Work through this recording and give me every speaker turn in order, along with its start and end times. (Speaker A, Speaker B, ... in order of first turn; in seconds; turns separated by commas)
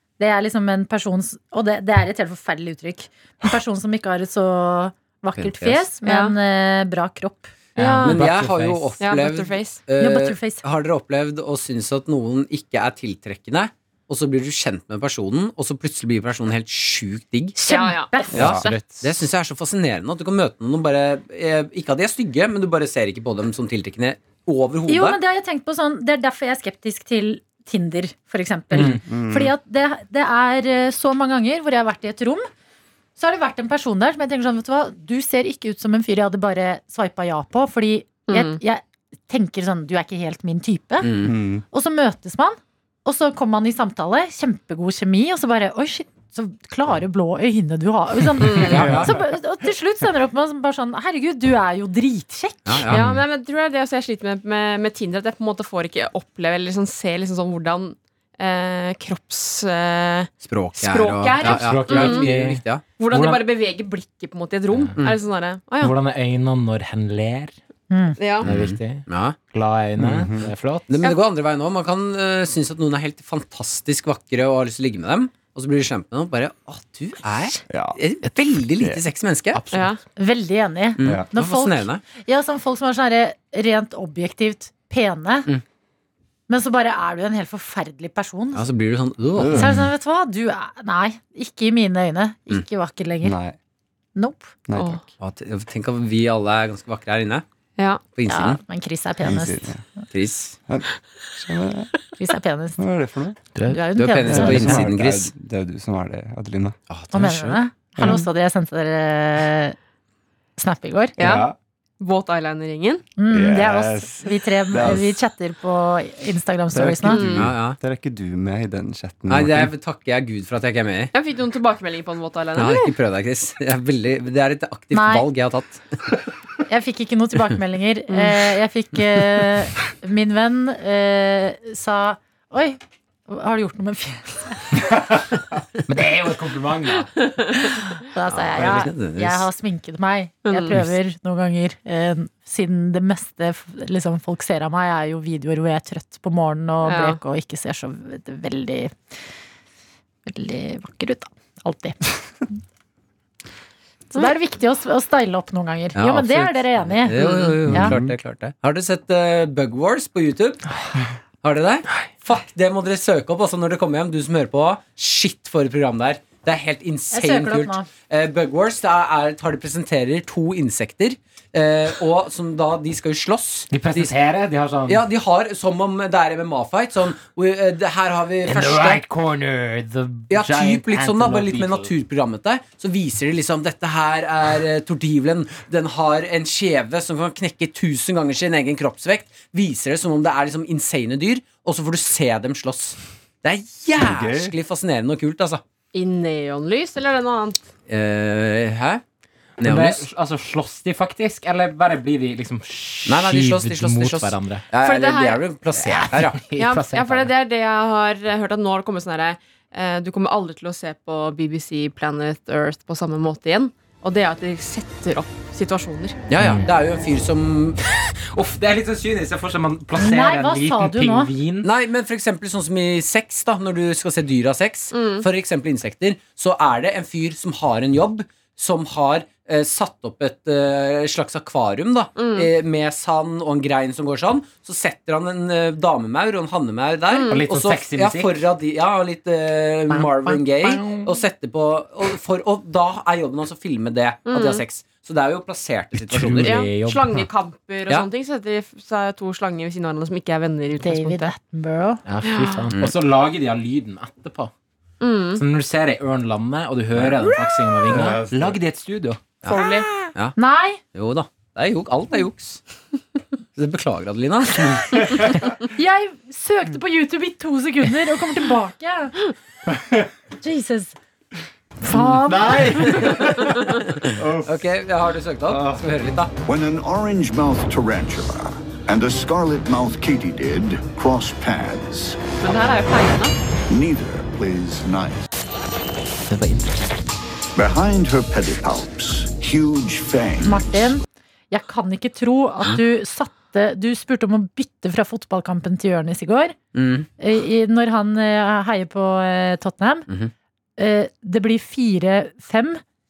Speaker A: 0.2-8.2, Speaker B: 5.3-5.9, Speaker C: 6.0-6.3, Speaker D: 7.8-8.9, Speaker B: 8.0-17.6, Speaker C: 9.0-9.8, Speaker A: 10.0-10.6, Speaker A: 17.6-18.6, Speaker C: 17.7-18.8, Speaker B: 18.3-25.2, Speaker E: 18.3-18.6, Speaker D: 18.5-19.2, Speaker A: 24.9-32.5, Speaker B: 28.7-29.0, Speaker E: 28.8-29.5, Speaker A: 33.2-41.2, Speaker C: 38.3-38.6, Speaker B: 41.0-41.3, Speaker E: 41.2-41.6, Speaker A: 41.7-52.9, Speaker C: 48.4-48.9, Speaker B: 48.6-49.1, Speaker E: 48.8-49.1, Speaker B: 52.7-53.1, Speaker D: 52.9-53.2, Speaker C: 52.9-62.3, Speaker B: 60.4-62.8, Speaker D: 61.4-63.4, Speaker C: 63.0-65.9, Speaker D: 65.8-67.5, Speaker A: 67.9-68.2, Speaker C: 68.2-68.5, Speaker B: 68.4-69.4, Speaker D: 68.4-70.9, Speaker E: 70.0-70.5, Speaker B: 70.9-79.6, Speaker E: 77.7-78.0, Speaker D: 79.5-79.9, Speaker C: 79.7-80.0, Speaker A: 80.2-85.5, Speaker B: 81.0-82.0, Speaker A: 86.5-88.7, Speaker B: 88.5-89.7, Speaker E: 89.4-89.8, Speaker A: 89.5-93.4, Speaker D: 89.6-89.8, Speaker E: 93.2-93.6, Speaker A: 94.2-94.5, Speaker E: 94.7-95.0, Speaker C: 94.8-95.0, Speaker B: 95.2-97.4, Speaker C: 97.8-98.0, Speaker B: 98.1-98.6, Speaker A: 98.3-99.7, Speaker E: 99.2-99.8, Speaker B: 100.1-100.6, Speaker E: 100.7-101.9, Speaker A: 102.2-102.8, Speaker E: 102.8-103.4, Speaker D: 103.5-104.8, Speaker A: 103.7-104.8, Speaker B: 104.0-105.3, Speaker E: 104.3-106.8, Speaker B: 106.9-107.6, Speaker A: 107.1-109.8, Speaker E: 108.0-108.2, Speaker A: 110.6-111.2, Speaker C: 111.2-111.5, Speaker E: 111.2-111.5, Speaker C: 112.0-113.0, Speaker A: 113.2-117.3, Speaker E: 113.3-115.2, Speaker E: 116.7-119.7, Speaker C: 117.1-117.5, Speaker B: 117.2-117.8, Speaker B: 119.3-121.1, Speaker C: 121.1-122.9, Speaker B: 122.6-125.9, Speaker A: 124.9-125.3, Speaker A: 126.7-134.9, Speaker D: 135.9-137.1, Speaker A: 137.6-149.0, Speaker B: 138.3-139.5, Speaker C: 140.5-140.8, Speaker C: 146.8-147.2, Speaker A: 150.3-152.6, Speaker A: 154.1-158.0, Speaker B: 155.9-160.6, Speaker E: 157.7-158.2, Speaker B: 161.4-174.1, Speaker A: 167.1-167.9, Speaker D: 173.7-175.0, Speaker B: 174.9-179.0, Speaker D: 178.5-181.9, Speaker B: 180.3-195.6, Speaker E: 194.0-194.5, Speaker C: 195.9-197.6, Speaker B: 197.9-199.0, Speaker B: 199.6-200.0, Speaker D: 199.6-204.7, Speaker B: 203.1-206.5, Speaker C: 204.8-205.4, Speaker D: 205.7-207.3, Speaker C: 206.6-216.2, Speaker B: 216.3-217.8, Speaker D: 216.4-216.7, Speaker D: 218.3-221.7, Speaker A: 220.0-221.3, Speaker B: 221.6-246.6, Speaker C: 224.9-225.3, Speaker C: 232.2-232.5, Speaker C: 237.1-237.4, Speaker D: 237.3-238.4, Speaker A: 240.2-241.1, Speaker C: 244.3-244.6, Speaker D: 246.0-247.1, Speaker C: 246.4-251.3, Speaker A: 250.8-252.0, Speaker D: 252.1-254.5, Speaker C: 252.2-252.7, Speaker C: 255.0-255.4, Speaker D: 255.4-259.2, Speaker E: 257.9-258.6, Speaker B: 259.4-260.4, Speaker C: 259.5-259.9, Speaker A: 260.4-260.8, Speaker B: 260.9-262.6, Speaker B: 263.6-265.6, Speaker A: 265.8-269.3, Speaker E: 269.8-270.0, Speaker A: 270.4-271.0, Speaker A: 271.8-273.2, Speaker E: 272.2-274.6, Speaker B: 273.6-276.3, Speaker E: 275.5-275.8, Speaker F: 276.5-282.2, Speaker C: 282.4-283.4, Speaker F: 283.7-285.3, Speaker D: 286.3-287.1, Speaker F: 287.6-290.9, Speaker A: 290.4-296.6, Speaker B: 296.7-297.1, Speaker A: 297.2-300.1, Speaker A: 300.8-302.8